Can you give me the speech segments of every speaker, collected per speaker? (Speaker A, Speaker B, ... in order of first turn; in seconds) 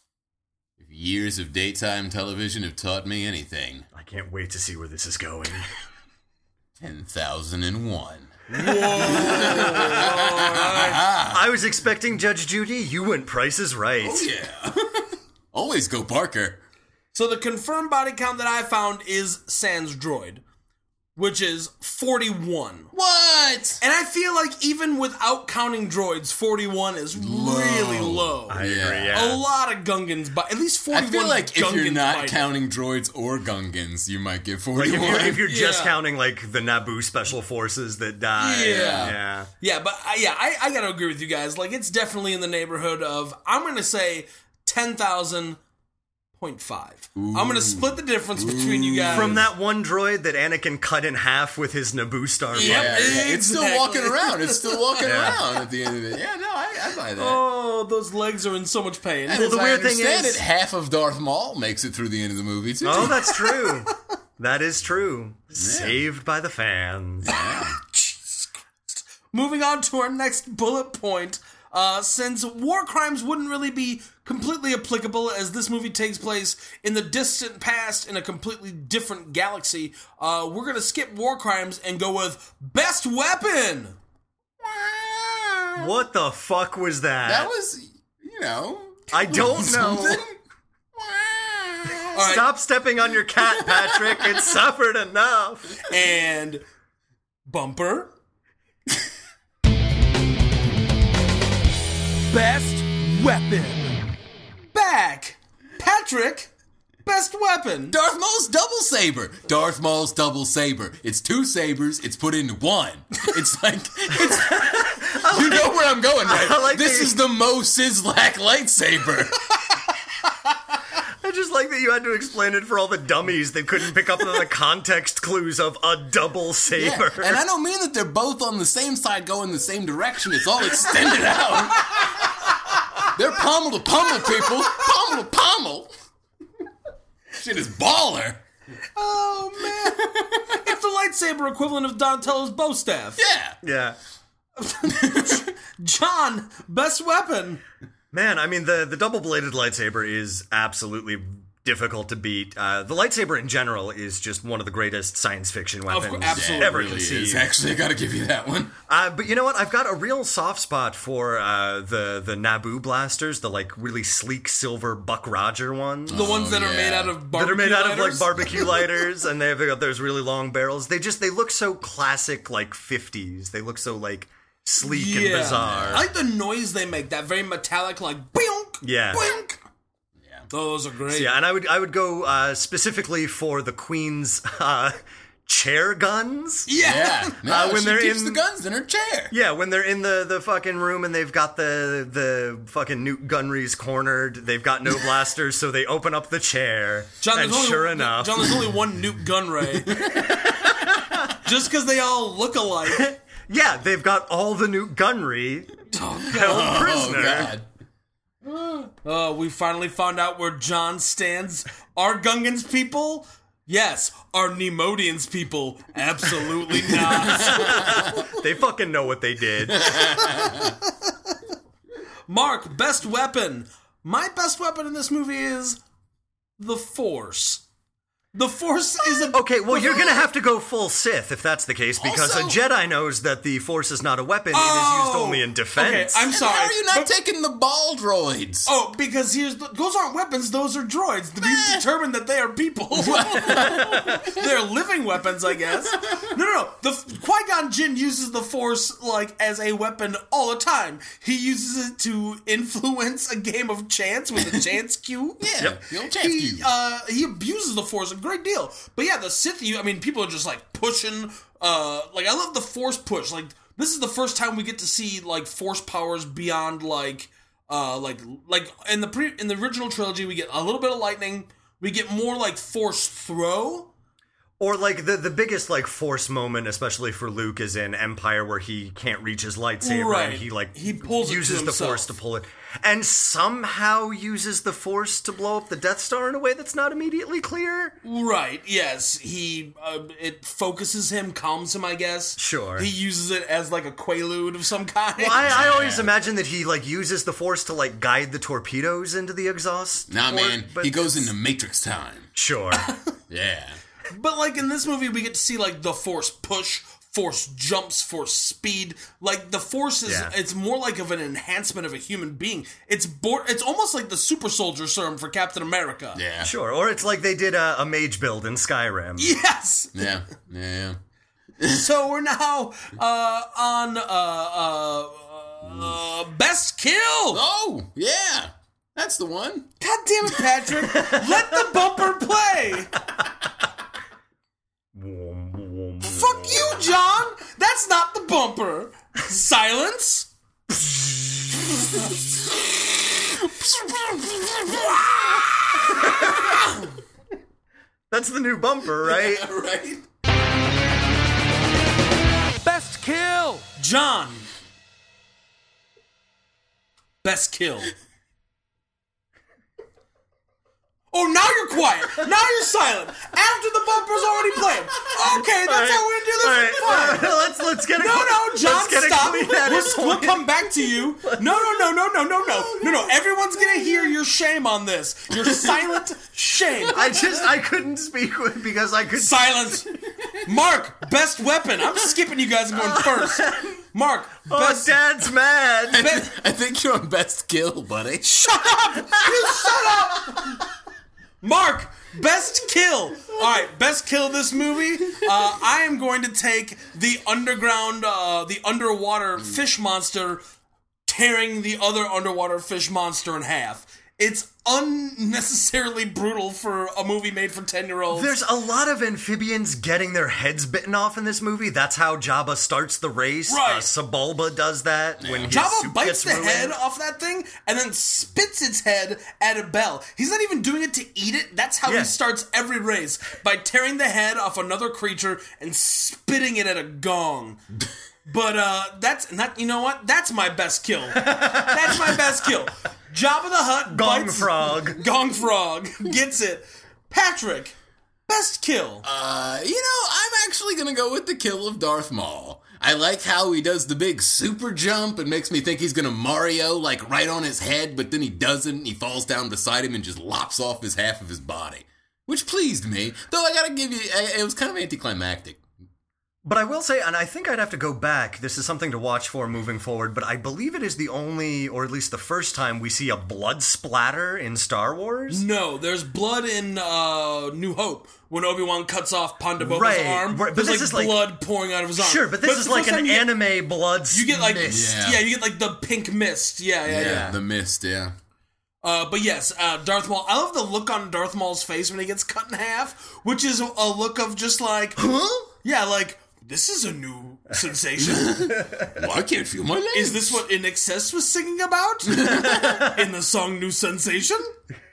Speaker A: 0.8-3.9, 6.8-11.5, 14.0-16.6, 22.9-23.8, 27.2-29.2, 30.9-35.4, 38.7-39.2, 47.2-49.5, 52.6-57.4, 59.3-63.3, 65.6-66.0, 67.3-67.8, 84.6-86.0, 87.3-90.3, 91.0-92.1, 93.5-94.4, 107.9-119.5, 126.8-135.9, 137.4-138.4, 143.2-143.6, 145.0-145.4, 156.3-158.7, 166.1-167.2, 168.4-168.7, 175.6-176.1, 186.8-189.3, 200.0-200.3, 206.4-207.7, 217.3-218.1, 219.7-220.8, 232.0-232.6, 236.3-238.7, 241.4-241.8, 242.9-244.5, 255.4-256.7, 295.4-296.1, 300.1-302.3, 303.3-303.8, 316.1-316.5, 319.9-321.0, 327.3-329.7, 343.2-346.7, 349.0-350.0, 377.0-377.4, 385.9-388.7, 415.2-415.5, 439.0-455.6, 474.7-475.2, 476.9-478.1, 488.0-490.4, 492.2-492.5
Speaker B: 4.0-5.7, 11.3-14.3, 28.5-29.4, 34.8-39.5, 49.1-53.2, 55.0-55.4, 59.3-60.4, 62.8-67.4, 85.8-87.5, 89.1-90.2, 92.1-95.8, 114.3-117.2, 121.2-127.4, 143.6-144.0, 148.1-157.5, 158.9-166.4, 167.3-176.1, 178.8-179.3, 181.1-186.7, 187.4-188.4, 189.3-198.6, 200.3-201.2, 202.9-205.7, 206.3-207.5, 217.3-220.2, 229.2-236.3, 274.6-288.0, 292.4-292.9, 295.2-301.3, 302.4-302.9, 310.1-310.3, 316.4-319.4, 330.9-331.7, 334.9-336.9, 340.7-341.6, 346.1-346.3, 348.1-349.4, 365.3-371.9, 372.5-373.0, 376.9-379.6, 382.9-383.8, 384.5-386.1, 408.1-416.8, 421.9-422.1, 431.1-432.2, 433.9-435.0, 456.4-465.4, 469.6-471.3, 472.0-475.0, 476.9-477.4, 485.0-485.5, 492.5-493.0
Speaker C: 8.5-11.0, 17.1-20.4, 21.2-22.9, 23.8-32.4, 35.4-36.0, 38.4-45.6, 46.4-49.4, 52.5-55.4, 57.2-59.5, 63.0-63.8, 67.3-84.0, 92.1-92.5, 95.8-96.6, 97.5-98.1, 102.3-104.0, 104.7-106.5, 107.0-108.0, 139.0-143.2, 144.6-147.6, 155.9-156.8, 166.1-168.8, 174.8-179.6, 180.5-181.3, 186.7-187.4, 197.2-200.3, 201.4-203.1, 205.9-206.8, 208.9-218.2, 219.8-221.4, 222.3-225.8, 226.6-227.6, 228.3-230.3, 234.5-237.1, 238.7-255.4, 256.1-273.9, 279.8-282.1, 288.0-295.8, 302.8-303.1, 304.1-316.2, 319.2-320.1, 321.6-327.4, 329.8-333.0, 336.0-340.3, 352.6-354.5, 357.2-357.9, 361.1-367.4, 368.0-377.0, 379.2-384.9, 386.0-386.3, 388.2-390.6, 391.4-400.4, 401.1-408.4, 413.5-413.9, 415.5-427.6, 428.3-437.8, 438.3-439.1, 465.3-473.4, 474.1-477.4, 478.8-485.1, 485.6-488.7, 489.9-494.6